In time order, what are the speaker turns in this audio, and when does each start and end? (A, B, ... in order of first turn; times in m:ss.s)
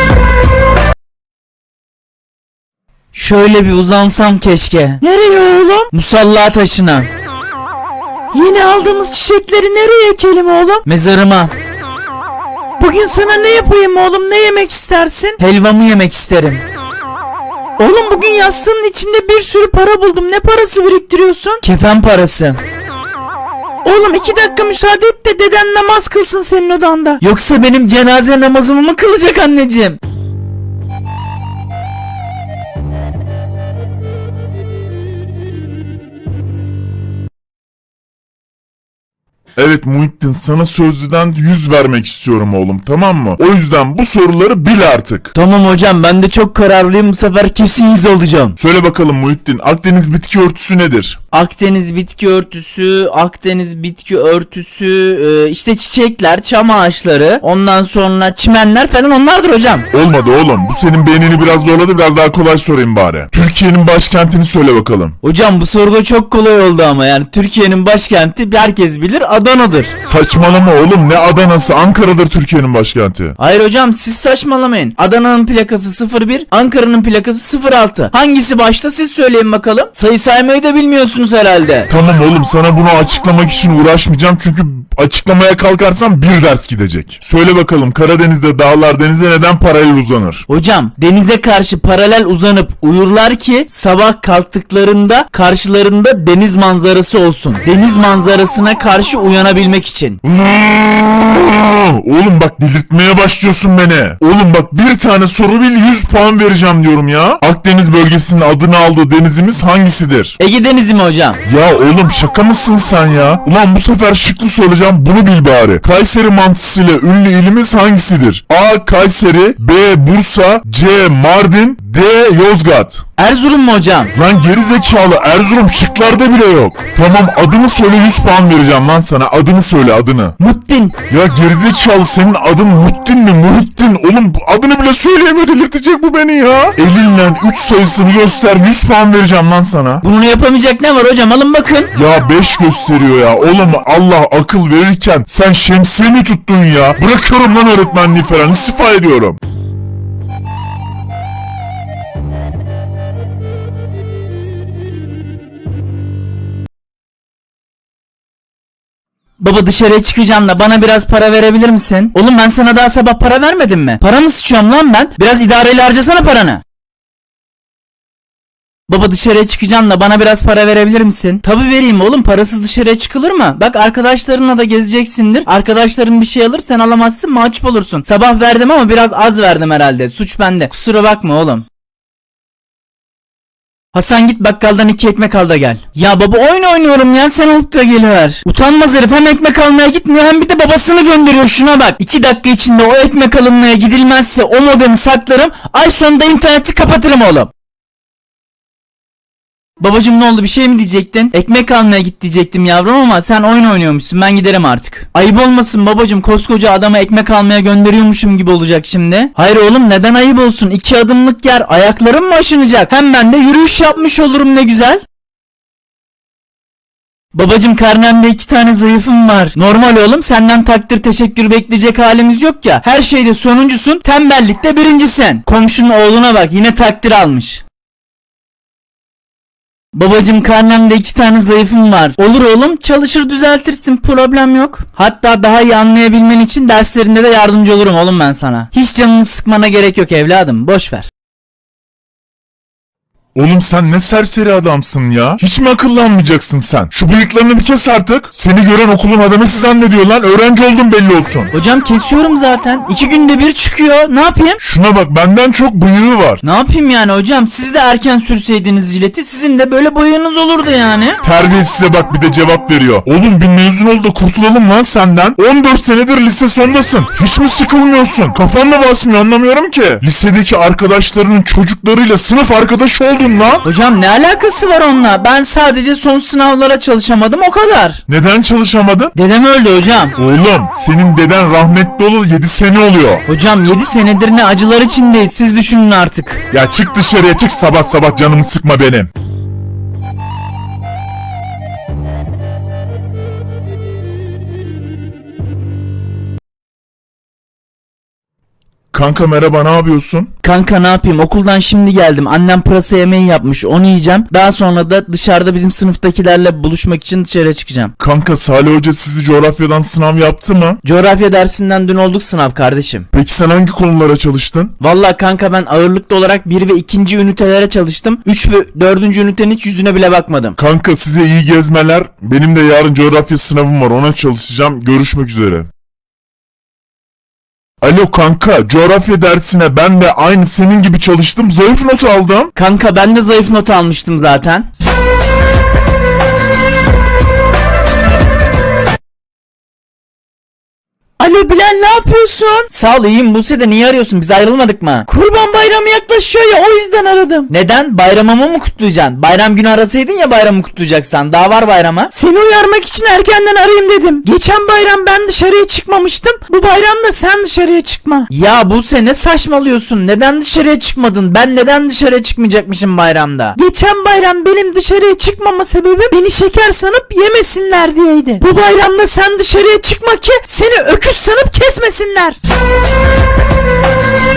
0:03.1-0:07.1 A
0:08.3-0:11.5 A
0:12.8-0:16.6 A
0:17.8-0:22.6 A
0:23.8-0:30.0 A
0:39.6-0:45.3 B
0:45.3-0:48.6 A
0:48.6-0:51.2 B
0:51.3-0:59.9 A
0:59.9-1:05.1 B
1:05.2-1:09.9 A
1:10.0-1:13.4 B
1:13.4-1:21.9 A
1:21.9-1:30.4 B
1:30.5-1:40.2 A
1:40.2-1:50.4 B
1:50.4-1:51.4 A
1:51.4-2:03.0 B
2:03.2-2:04.1 A
2:04.1-2:10.4 B
2:10.4-2:11.0 A
2:11.1-2:20.0 B
2:20.0-2:21.9 A
2:21.9-2:29.4 B
2:39.4-2:46.6 A
2:48.9-3:01.6 A
3:03.9-3:17.5 A
3:19.8-3:35.0 A
3:37.3-3:47.6 A
3:49.9-4:01.1 A
4:03.3-4:11.5 B
4:11.5-4:14.6 A
4:14.6-4:16.4 B
4:16.4-4:21.2 A
4:21.2-4:33.6 B
4:33.6-4:38.0 A
4:38.1-4:39.1 B
4:39.2-4:40.2 A
4:40.2-4:43.2 B
4:43.3-4:46.4 A
4:46.5-4:49.1 B
4:58.9-5:00.3 B
5:00.4-5:07.9 A
5:08.0-5:10.8 B
5:10.8-5:13.0 A
5:13.1-5:14.7 B
5:14.8-5:20.6 A
5:20.6-5:25.7 B
5:27.8-5:32.5 B
5:32.5-5:34.7 A
5:41.2-6:12.4 A